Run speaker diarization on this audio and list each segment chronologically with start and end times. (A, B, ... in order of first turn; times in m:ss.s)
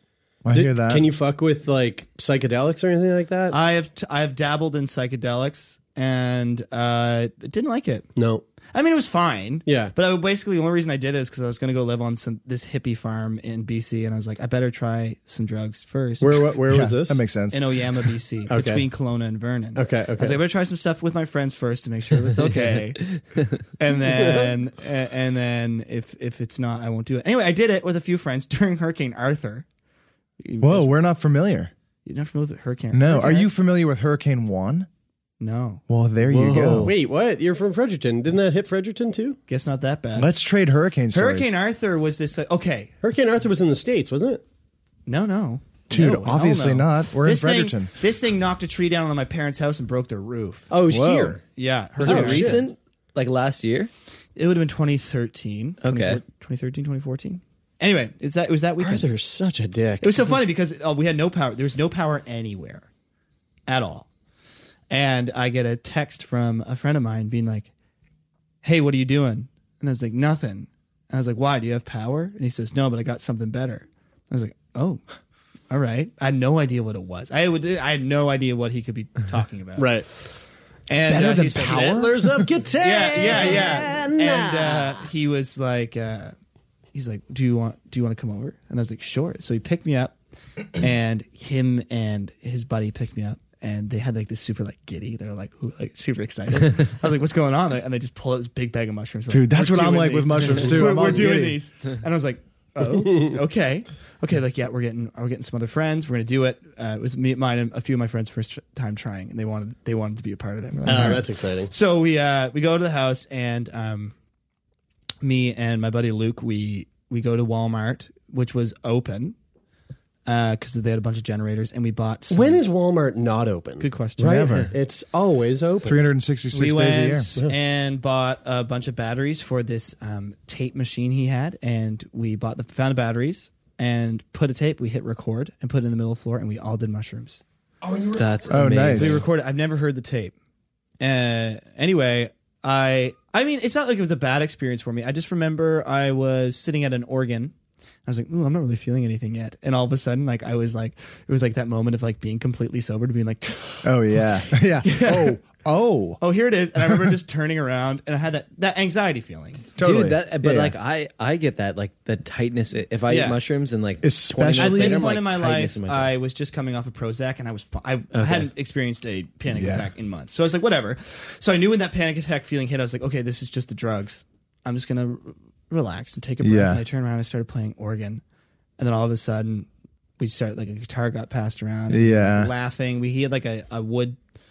0:00.4-0:01.0 A
0:00.5-0:03.6 B
0:03.5-0:08.1 C
0:08.2-0:08.4 B
0:08.7-0:16.5 C
0:09.6-0:09.9 B
0:16.2-0:17.2 B
0:16.7-0:17.6 A
0:17.5-0:29.6 C
0:18.5-0:18.8 B
0:19.8-0:20.4 B
0:23.0-0:23.6 D
0:24.0-0:24.5 B
0:30.4-0:30.9 C
0:30.6-0:31.7 A
0:32.0-0:33.5 C
0:32.9-0:34.9 A
0:35.4-0:35.8 C
0:35.9-0:36.9 A
0:36.3-0:39.4 B
0:39.5-0:40.3 C
0:40.2-0:41.5 A
0:41.1-0:42.9 C
0:43.0-0:44.4 B
0:45.1-0:50.7 C
0:45.9-0:47.9 A
0:50.7-0:51.4 B
0:50.9-0:51.4 A
0:51.6-0:52.6 C
0:52.0-0:52.6 B
0:52.0-0:53.9 D
0:54.4-0:59.1 C
0:55.8-0:56.2 D
0:58.8-1:00.2 B
1:00.0-1:02.9 C
1:03.7-1:04.1 C
1:04.9-1:07.7 C
1:08.6-1:15.0 C
1:15.7-1:22.1 C
1:19.8-1:20.0 B
1:21.1-1:22.5 A
1:21.5-1:25.0 B
1:22.8-1:26.3 C
1:26.9-1:54.1 C
1:39.3-1:41.6 A
1:40.8-1:41.1 B
1:42.8-1:43.4 B
1:50.8-1:51.2 A
1:50.8-1:51.7 B
1:55.2-1:59.4 C
2:00.2-2:02.6 C
2:02.3-2:06.0 B
2:03.8-2:04.6 C
2:04.2-2:04.7 A
2:05.8-2:07.3 A
2:06.5-2:17.4 C
2:17.8-2:19.2 B
2:18.2-2:19.2 D
2:18.5-2:19.2 A
2:18.8-2:20.3 C
2:21.0-2:27.5 C
2:28.0-2:35.4 C
2:33.8-2:36.2 A
2:36.2-2:39.7 C
2:39.8-2:40.7 A
2:39.8-2:46.1 D
2:43.1-2:43.4 C
2:44.0-2:45.2 A
2:44.6-2:58.2 C
2:48.1-2:48.5 D
2:49.5-2:49.9 A
2:56.4-2:56.8 A
2:58.8-2:59.7 C
3:00.2-3:04.2 C
3:01.9-3:02.5 A